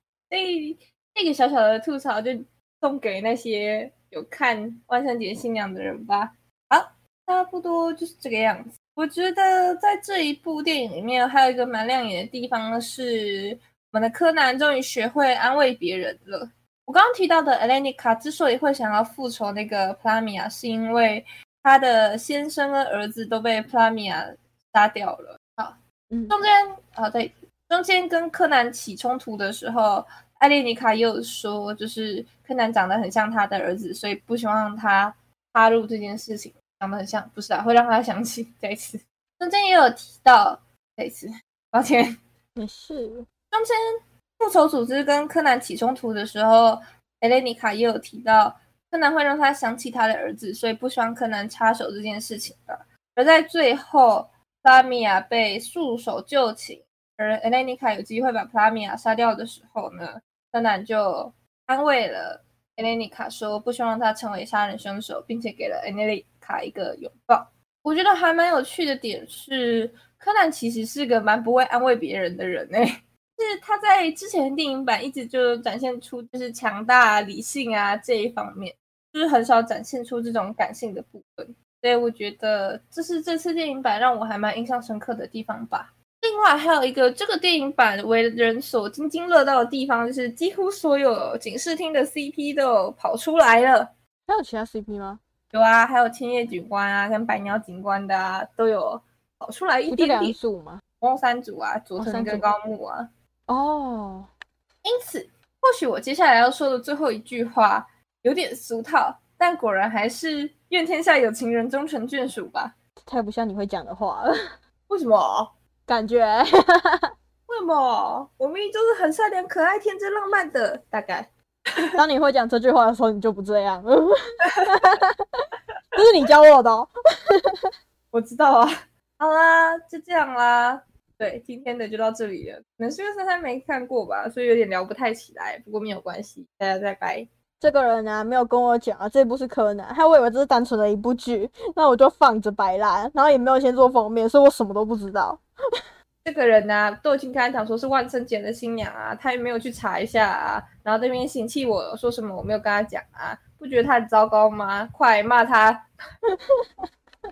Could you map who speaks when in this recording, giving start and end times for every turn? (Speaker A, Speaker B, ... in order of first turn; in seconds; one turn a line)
Speaker A: 0.3-25.8
Speaker B: 26.1-26.4
Speaker A: 26.3-42.1
Speaker B: 42.5-43.2
Speaker A: 43.5-43.8
Speaker A: 44.4-93.9
Speaker B: 94.3-95.2
Speaker A: 95.5-100.3
Speaker B: 99.9-100.8
Speaker A: 101.0-103.1
Speaker B: 102.0-102.5
Speaker B: 103.5-104.3
Speaker A: 104.8-112.7
Speaker B: 113.0-114.5
Speaker A: 114.9-115.5
Speaker B: 115.9-117.1
Speaker A: 117.5-122.0
Speaker B: 121.9-127.7
Speaker A: 128.1-137.3
Speaker B: 137.6-145.8
Speaker A: 146.2-155.8
Speaker B: 156.3-156.6